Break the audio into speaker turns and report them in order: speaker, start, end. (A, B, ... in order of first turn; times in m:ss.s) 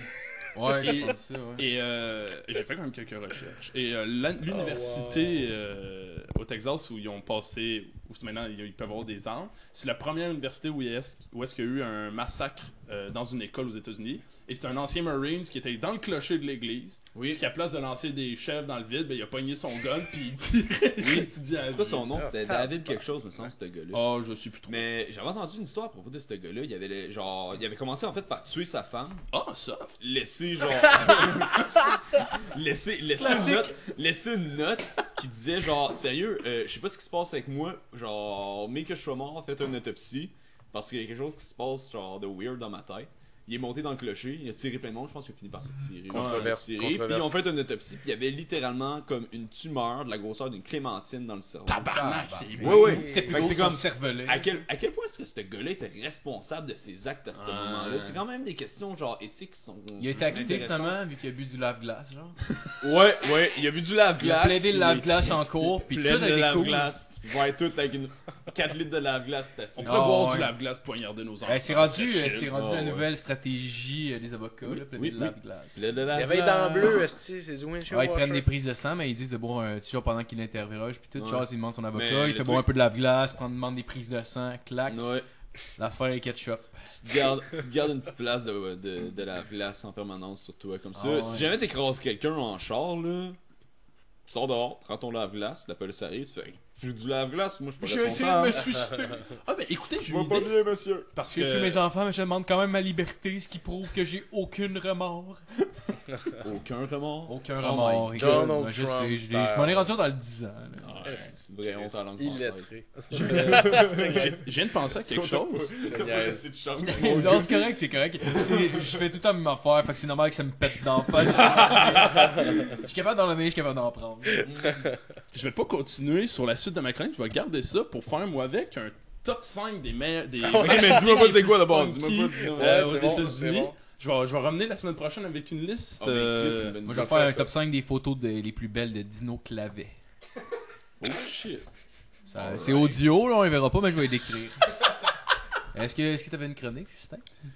0:00.6-0:01.6 A
0:00.7-0:22.1 B
0:04.6-0:05.4 C
0:17.2-0:17.4 D
0:21.0-0:24.0 D
0:22.2-0:22.9 C
0:23.9-0:24.9 B
0:24.7-0:29.2 D
0:29.3-0:30.0 B
0:30.0-1:01.0 D
0:33.3-0:33.6 A
0:46.1-0:46.5 B
0:46.1-0:47.4 C
0:51.7-0:53.1 B
0:51.9-0:54.6 A
0:52.6-0:53.5 C
0:57.3-0:58.2 B
1:00.0-1:02.4 A
1:02.8-1:10.1 D
1:04.2-1:06.9 A
1:09.8-1:12.5 B
1:09.8-1:10.5 A
1:11.5-1:15.9 A
1:12.5-1:13.1 D
1:14.6-1:17.1 D
1:16.1-1:18.5 C
1:17.9-1:25.2 A
1:21.2-1:22.7 D
1:24.9-1:25.3 D
1:25.8-1:26.8 A
1:26.9-1:33.4 D
1:31.0-1:31.5 A
1:34.3-1:38.8 D
1:37.8-1:39.2 A
1:38.8-1:40.6 B
1:40.0-1:41.1 D
1:41.2-1:41.8 B
1:41.3-1:45.4 A
1:46.4-1:48.6 D
1:47.3-1:51.1 A
1:48.2-1:49.9 C
1:50.8-1:59.0 D
1:51.0-1:54.4 C
1:53.8-1:55.8 B
1:55.9-1:57.3 C
1:56.9-2:04.5 A
2:01.2-2:02.5 D
2:04.4-2:04.8 D
2:05.3-2:16.8 B
2:10.4-2:11.3 C
2:10.4-2:13.3 D
2:12.5-2:13.8 C
2:16.0-2:17.5 D
2:16.8-2:20.0 A
2:16.9-2:17.5 C
2:21.0-2:21.7 D
2:22.3-2:24.7 A
2:22.3-2:23.0 D
2:25.7-2:27.2 A